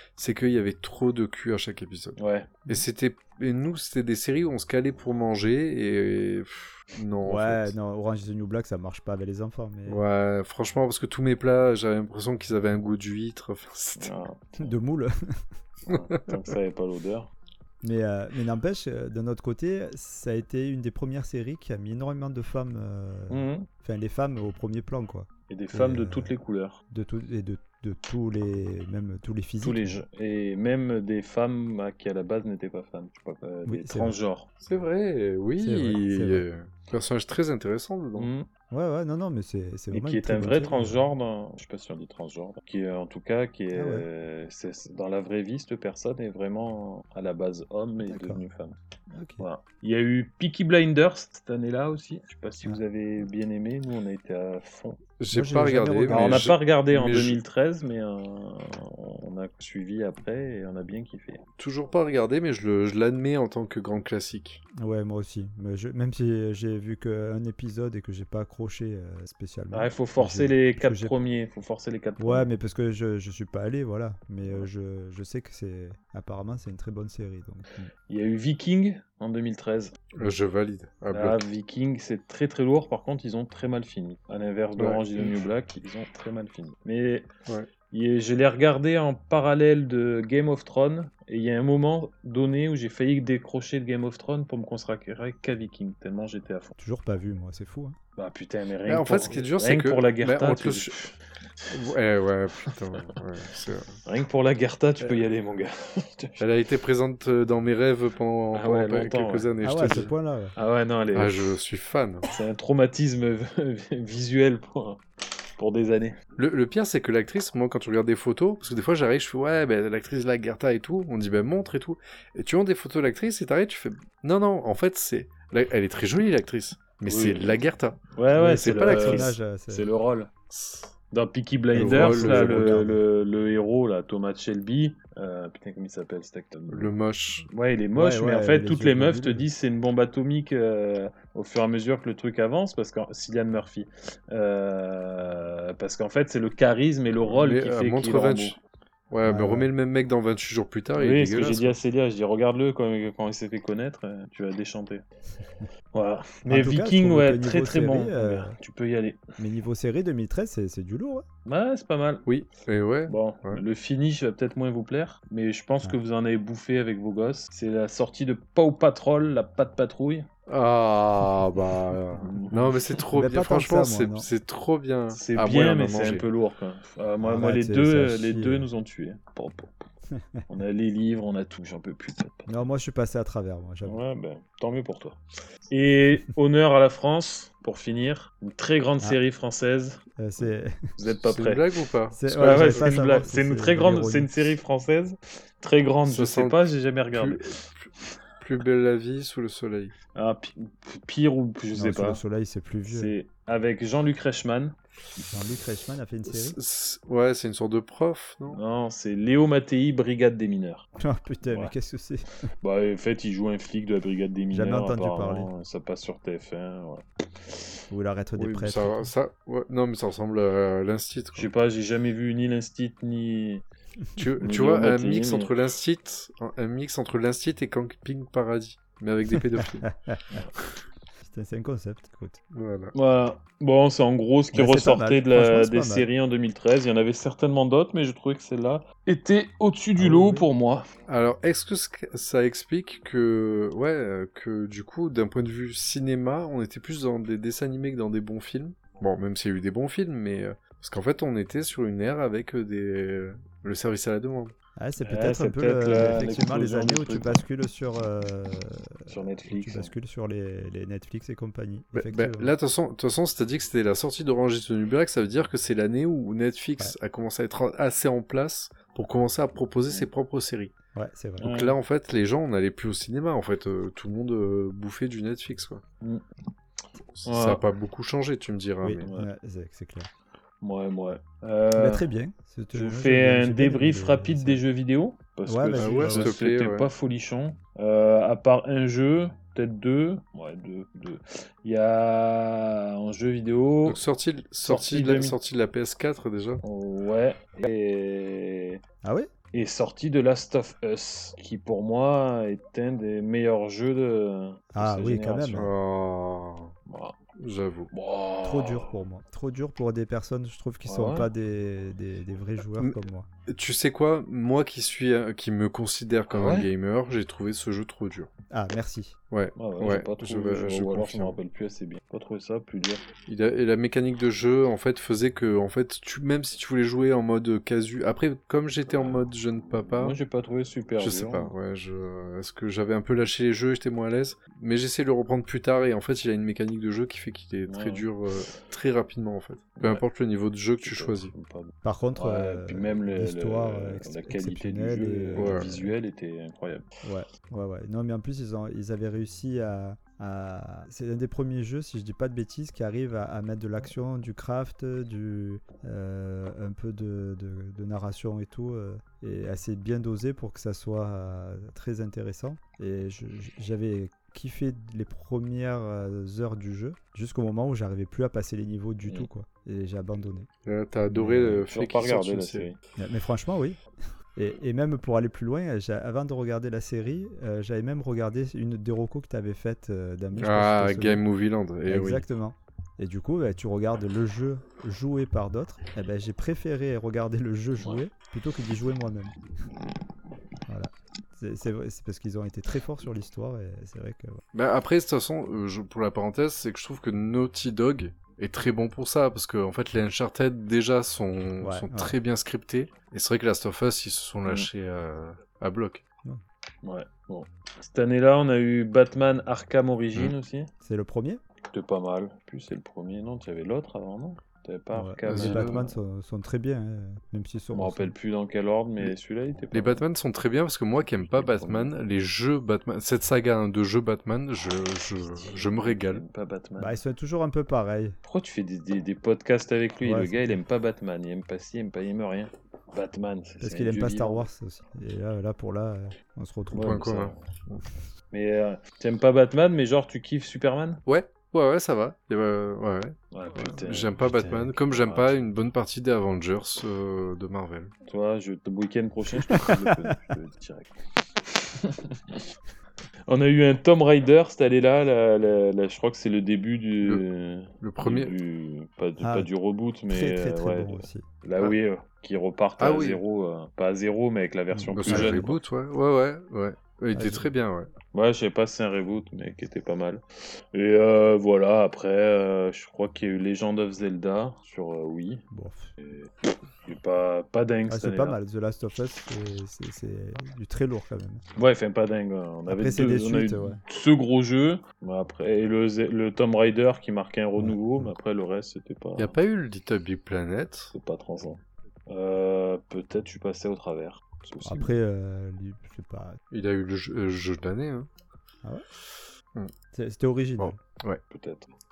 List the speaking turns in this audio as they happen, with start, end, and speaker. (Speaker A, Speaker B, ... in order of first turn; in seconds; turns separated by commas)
Speaker A: 0.1-7.7, Speaker B: 2.2-2.5, Speaker C: 7.2-10.0, Speaker A: 9.9-14.1, Speaker B: 14.0-14.7, Speaker C: 14.6-15.4, Speaker B: 15.9-17.3, Speaker A: 15.9-16.2, Speaker C: 17.8-26.3, Speaker B: 23.3-23.7, Speaker B: 25.5-26.8, Speaker C: 26.9-30.0, Speaker B: 29.6-34.5, Speaker C: 33.7-34.2, Speaker A: 34.6-38.3, Speaker C: 35.6-36.5, Speaker B: 38.2-38.5, Speaker C: 38.7-41.0, Speaker B: 39.9-48.8, Speaker C: 43.7-44.1, Speaker C: 48.0-48.4, Speaker C: 49.1-49.4, Speaker B: 49.4-55.0, Speaker A: 55.2-57.4, Speaker C: 55.3-56.5, Speaker B: 56.1-61.4, Speaker A: 61.6-64.6, Speaker C: 64.8-71.2, Speaker B: 69.7-72.5, Speaker C: 72.2-77.9, Speaker B: 78.1-79.9, Speaker A: 80.1-81.4, Speaker B: 81.1-87.3, Speaker A: 84.8-85.4, Speaker B: 87.9-96.7, Speaker C: 96.8-98.0, Speaker B: 98.2-101.1, Speaker A: 98.9-101.0, Speaker A: 101.7-104.0, Speaker B: 104.0-106.5, Speaker A: 106.4-110.1, Speaker B: 108.5-111.5, Speaker C: 109.6-110.5, Speaker A: 111.1-112.2, Speaker B: 112.3-115.0, Speaker B: 115.6-116.2, Speaker A: 116.4-129.3, Speaker B: 127.1-130.3, Speaker C: 128.3-129.9, Speaker A: 130.5-130.9, Speaker B: 131.1-136.9, Speaker C: 131.7-133.0, Speaker A: 131.7-132.8, Speaker A: 136.7-137.5, Speaker B: 137.5-148.6, Speaker C: 137.9-139.4, Speaker A: 147.2-148.6, Speaker A: 149.1-151.8, Speaker C: 149.2-149.7, Speaker B: 150.9-155.0, Speaker B: 155.9-159.2, Speaker C: 156.5-158.5, Speaker C: 159.4-161.2, Speaker B: 161.4-162.2, Speaker A: 162.2-163.6, Speaker B: 163.1-170.3, Speaker A: 170.5-176.2, Speaker B: 172.2-173.0, Speaker C: 173.1-174.3, Speaker B: 175.1-179.8, Speaker C: 177.2-178.7, Speaker C: 180.1-180.4, Speaker B: 180.5-182.6, Speaker C: 182.5-184.0, Speaker B: 183.8-185.2, Speaker B: 185.7-190.0, Speaker C: 190.2-190.9, Speaker B: 191.0-191.7, Speaker A: 191.2-192.9, Speaker C: 192.1-194.5, Speaker B: 192.3-197.6, Speaker A: 196.1-196.6, Speaker A: 197.1-199.9, Speaker B: 200.1-202.2, Speaker C: 201.7-203.1, Speaker B: 202.9-204.7, Speaker C: 205.2-206.6, Speaker A: 206.3-208.6, Speaker B: 208.5-210.9, Speaker C: 211.0-212.3, Speaker B: 211.5-211.7, Speaker B: 212.6-217.7, Speaker C: 214.5-215.5, Speaker C: 217.9-219.1, Speaker A: 218.3-221.5, Speaker B: 221.3-223.6, Speaker A: 224.2-229.9, Speaker B: 224.4-225.5, Speaker C: 229.3-230.4, Speaker C: 231.2-232.4, Speaker A: 232.5-232.9, Speaker B: 232.9-240.8, Speaker C: 234.5-236.1, Speaker C: 240.0-240.5, Speaker A: 241.1-254.5, Speaker C: 254.8-262.5, Speaker B: 255.0-257.4, Speaker B: 259.1-259.9, Speaker A: 261.9-270.7, Speaker C: 270.9-271.5, Speaker B: 271.4-271.8, Speaker A: 271.4-275.8, Speaker A: 277.1-279.1, Speaker B: 277.2-277.6, Speaker C: 278.8-280.1, Speaker B: 279.0-279.3, Speaker B: 280.6-282.0, Speaker C: 281.8-284.6, Speaker B: 282.7-294.0, Speaker C: 285.5-286.3, Speaker A: 285.7-286.9, Speaker A: 293.9-296.6, Speaker B: 294.6-295.4, Speaker B: 296.6-298.8, Speaker C: 299.0-299.3, Speaker B: 299.5-305.6, Speaker C: 304.7-305.7, Speaker A: 305.5-306.7, Speaker B: 306.9-307.1, Speaker A: 307.4-307.9, Speaker B: 307.9-308.9, Speaker C: 308.4-313.3, Speaker B: 310.9-311.3, Speaker A: 313.5-318.3, Speaker B: 316.3-316.7, Speaker C: 318.5-319.1, Speaker A: 319.3-321.4, Speaker B: 319.6-323.0, Speaker A: 323.3-330.2, Speaker B: 328.9-331.5, Speaker A: 331.0-341.3, Speaker B: 337.7-338.1, Speaker B: 339.8-340.0, Speaker B: 340.8-346.9, Speaker C: 341.8-345.9, Speaker A: 345.3-345.7, Speaker C: 347.0-370.5, Speaker A: 370.6-372.7, Speaker C: 371.1-371.7, Speaker B: 371.7-372.8, Speaker C: 373.0-373.8, Speaker C: 374.4-381.2, Speaker A: 380.4-382.2, Speaker C: 381.9-389.4, Speaker C: 390.7-394.4, Speaker A: 394.5-406.0, Speaker C: 401.6-402.1, Speaker B: 406.8-410.7, Speaker C: 410.8-411.4, Speaker B: 411.7-416.0, Speaker C: 414.9-418.1, Speaker A: 415.3-415.8, Speaker B: 417.7-420.0, Speaker A: 419.7-426.2, Speaker B: 421.1-421.9, Speaker B: 425.3-427.0, Speaker C: 426.8-428.2, Speaker B: 428.2-434.5, Speaker C: 430.0-430.6, Speaker C: 433.6-437.0, Speaker B: 436.7-437.3, Speaker A: 436.8-437.8, Speaker B: 438.3-441.0, Speaker A: 441.1-447.9, Speaker B: 443.3-445.5, Speaker B: 448.1-452.5, Speaker C: 449.6-450.1, Speaker B: 453.3-465.6, Speaker A: 457.8-458.3, Speaker C: 459.2-459.5, Speaker C: 460.1-461.2, Speaker A: 462.8-463.2, Speaker C: 464.7-465.6, Speaker A: 464.9-467.9, Speaker C: 467.1-467.5, Speaker B: 468.1-475.4, Speaker C: 475.5-475.9, Speaker B: 476.0-478.4, Speaker C: 477.9-481.4, Speaker B: 481.6-489.4, Speaker C: 482.7-483.8, Speaker C: 487.6-488.1, Speaker A: 489.2-490.9, Speaker B: 490.9-494.9, Speaker C: 494.6-496.4, Speaker A: 496.5-498.1, Speaker C: 499.9-500.8, Speaker A: 500.6-501.2, Speaker B: 501.3-501.7